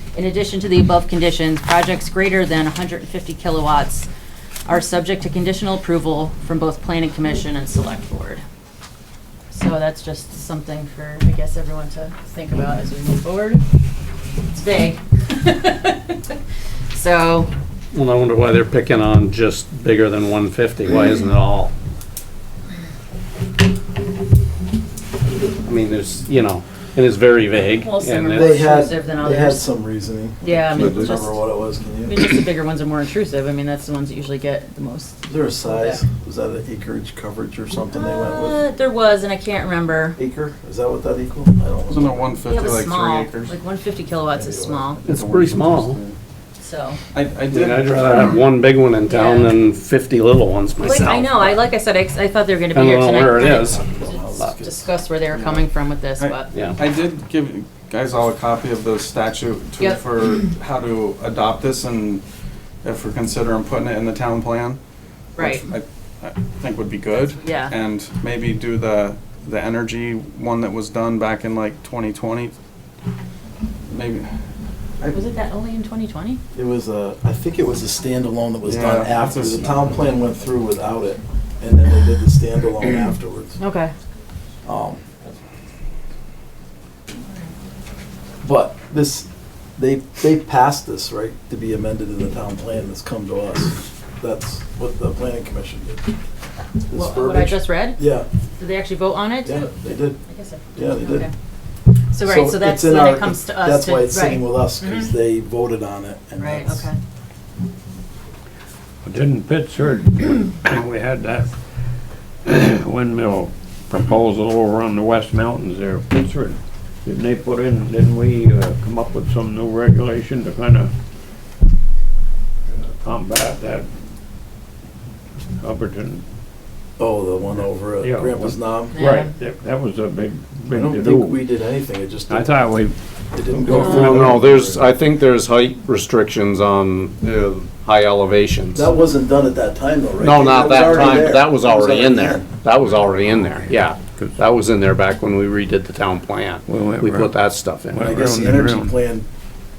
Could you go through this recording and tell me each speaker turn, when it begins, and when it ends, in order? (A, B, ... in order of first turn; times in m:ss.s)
0:00.1-0:04.1 A
0:04.6-0:08.4 A
0:09.5-0:13.6 A
0:14.5-0:16.4 A
0:16.9-0:17.5 A
0:17.9-0:21.7 B
0:25.6-0:28.6 B
0:27.6-0:29.7 A
0:28.3-0:32.4 C
0:30.4-0:31.4 A
0:32.0-0:36.0 A
0:35.2-0:38.6 C
0:37.9-0:40.2 A
0:40.2-0:42.3 C
0:41.9-0:43.5 D
0:42.4-0:45.0 A
0:44.3-0:45.0 C
0:45.0-0:46.0 B
0:45.1-0:46.0 D
0:46.6-0:47.0 A
0:47.1-0:48.0 D
0:47.5-0:51.6 B
0:49.0-0:49.5 A
0:50.8-0:56.5 A
0:52.7-0:53.8 B
0:53.5-0:54.9 C
0:55.3-0:55.6 D
0:56.2-1:02.2 D
0:56.5-0:56.8 B
1:02.8-1:04.8 D
1:05.4-1:05.6 A
1:05.4-1:12.6 D
1:07.2-1:07.7 A
1:13.9-1:14.3 D
1:15.1-1:16.4 A
1:16.5-1:23.6 C
1:18.6-1:19.7 D
1:23.6-1:23.9 A
1:24.6-1:25.0 C
1:28.4-1:36.0 C
1:36.9-1:38.3 C
1:36.9-1:38.0 A
1:38.6-1:41.3 A
1:39.4-1:40.2 C
1:40.7-1:41.3 C
1:42.1-1:45.1 A
1:42.2-1:46.9 C
1:46.4-1:47.0 A
1:49.0-1:51.5 E
1:52.4-2:00.9 E
2:03.0-2:03.9 E
2:05.6-2:06.2 E
2:07.0-2:09.0 C
2:08.0-2:11.4 E
2:08.9-2:09.3 A
2:10.7-2:12.7 C
2:12.3-2:13.0 E
2:13.3-2:14.9 C
2:13.5-2:14.3 E
2:13.8-2:18.8 B
2:18.7-2:22.4 C
2:20.2-2:28.0 B
2:22.8-2:24.4 E
2:26.7-2:28.9 E
2:28.0-2:29.3 C